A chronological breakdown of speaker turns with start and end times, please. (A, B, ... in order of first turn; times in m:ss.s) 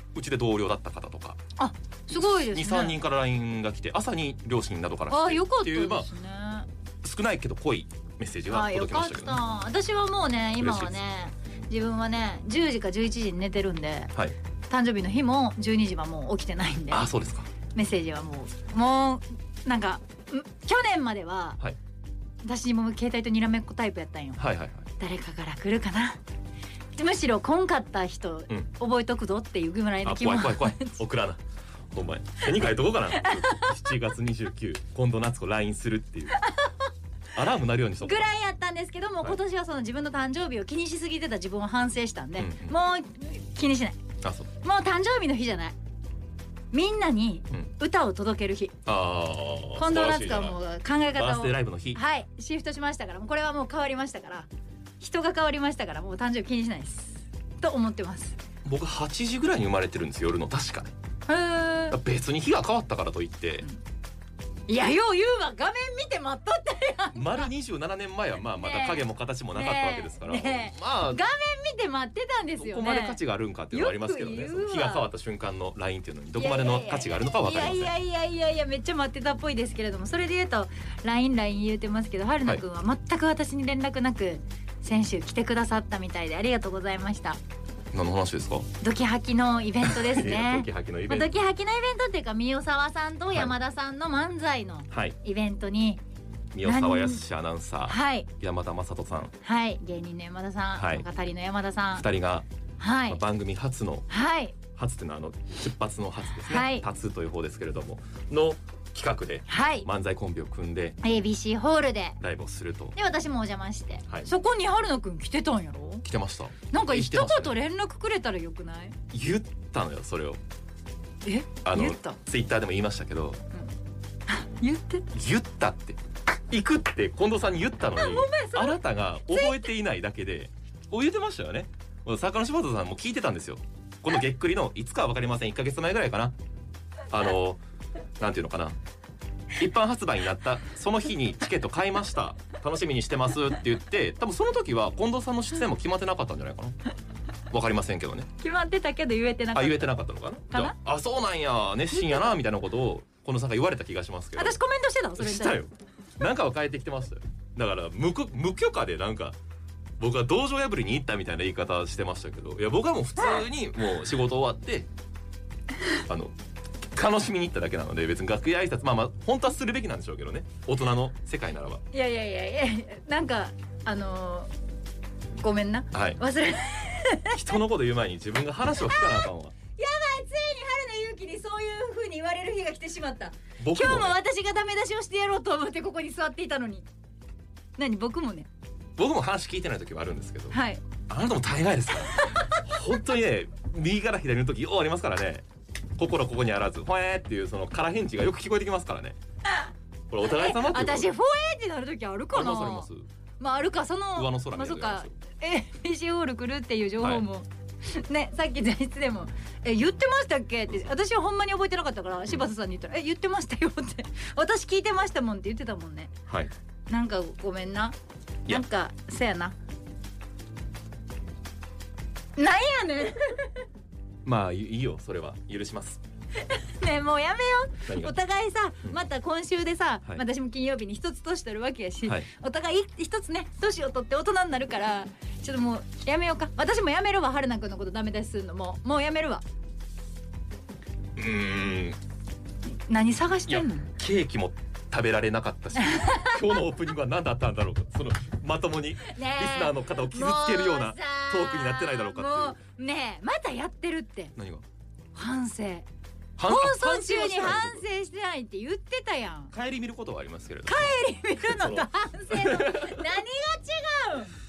0:00.1-0:01.4 A
0:01.6-0:03.0 B
0:02.1-0:06.1 A
0:05.1-0:06.7 B
0:07.0-0:09.4 A
0:08.5-0:14.1 B
0:10.6-0:11.0 A
0:14.7-0:17.1 B
0:16.9-0:17.5 A
0:17.7-0:21.6 B
0:22.4-0:24.4 B
0:24.4-0:24.9 A
0:25.0-0:26.2 B
0:27.0-0:31.0 B
0:30.0-0:36.4 A
0:33.2-0:33.7 B
0:37.3-0:38.3 A
0:38.0-0:44.0 B
0:42.4-0:42.7 A
0:44.2-0:44.5 A
0:44.6-0:45.8 B
0:46.7-0:48.8 B
0:48.8-0:50.6 A
0:49.8-0:54.5 B
0:51.1-0:52.0 A
0:55.0-0:58.3 B
0:58.6-1:00.9 A
1:01.3-1:02.0 B
1:01.9-1:03.6 A
1:04.7-1:07.5 B
1:07.1-1:11.2 A
1:08.6-1:13.2 B
1:12.6-1:17.9 A
1:13.7-1:15.1 B
1:16.4-1:27.4 B
1:27.9-1:28.7 A
1:28.8-1:36.0 B
1:29.8-1:31.3 A
1:34.9-1:35.2 A
1:36.5-1:39.3 A
1:36.6-1:37.2 B
1:37.9-1:38.3 B
1:39.4-1:42.1 B
1:40.7-1:41.0 A
1:41.9-1:42.5 A
1:42.8-1:43.2 B
1:43.1-1:44.1 A
1:44.1-1:44.6 B
1:44.7-1:51.0 A
1:46.5-1:46.8 B
1:49.5-1:49.9 B
1:51.0-1:52.2 B
1:52.2-1:53.0 A
1:53.0-1:56.0 B
1:56.0-1:57.5 A
1:56.7-1:58.9 B
1:59.1-2:00.4 A
2:01.2-2:02.2 B
2:01.6-2:03.4 A
2:04.3-2:05.1 B
2:05.1-2:06.0 A
2:06.5-2:16.3 A
2:07.9-2:09.7 B
2:17.1-2:17.6 A
2:18.2-2:18.8 A
2:19.6-2:26.8 A
2:27.5-2:28.3 A
2:28.4-2:29.9 B
2:29.5-2:34.6 A
2:30.5-2:30.8 B
2:34.4-2:35.6 B
2:35.2-2:39.4 A
2:40.0-2:44.9 A
2:46.0-2:46.4 A
2:46.9-2:51.8 A
2:51.9-2:54.5 B
2:55.4-2:57.4 B
2:55.9-2:56.2 A
2:57.3-2:59.5 A
2:58.9-3:06.8 B
3:03.6-3:04.2 A
3:07.8-3:08.5 B
3:09.0-3:15.4 A
3:10.5-3:10.8 B
3:12.2-3:12.5 B
3:16.0-3:19.2 A
3:20.1-3:21.1 A
3:20.2-3:22.9 B
3:22.3-3:23.1 A
3:23.4-3:36.1 B
3:24.1-3:25.1 A
3:27.0-3:27.3 A
3:36.9-3:37.9 B
3:38.5-3:39.6 B
3:42.4-3:43.5 B
3:44.2-3:46.0 A
3:46.4-3:59.4 B
3:47.9-3:48.1 A
4:01.2-4:02.0 A
4:02.9-4:03.9 B
4:03.5-4:12.6 A
4:05.8-4:06.4 B
4:09.1-4:14.3 B
4:14.4-4:14.6 A
4:15.1-4:15.9 B
4:16.4-4:17.8 A
4:16.4-4:19.5 B
4:19.5-4:23.0 A
4:20.6-4:24.3 B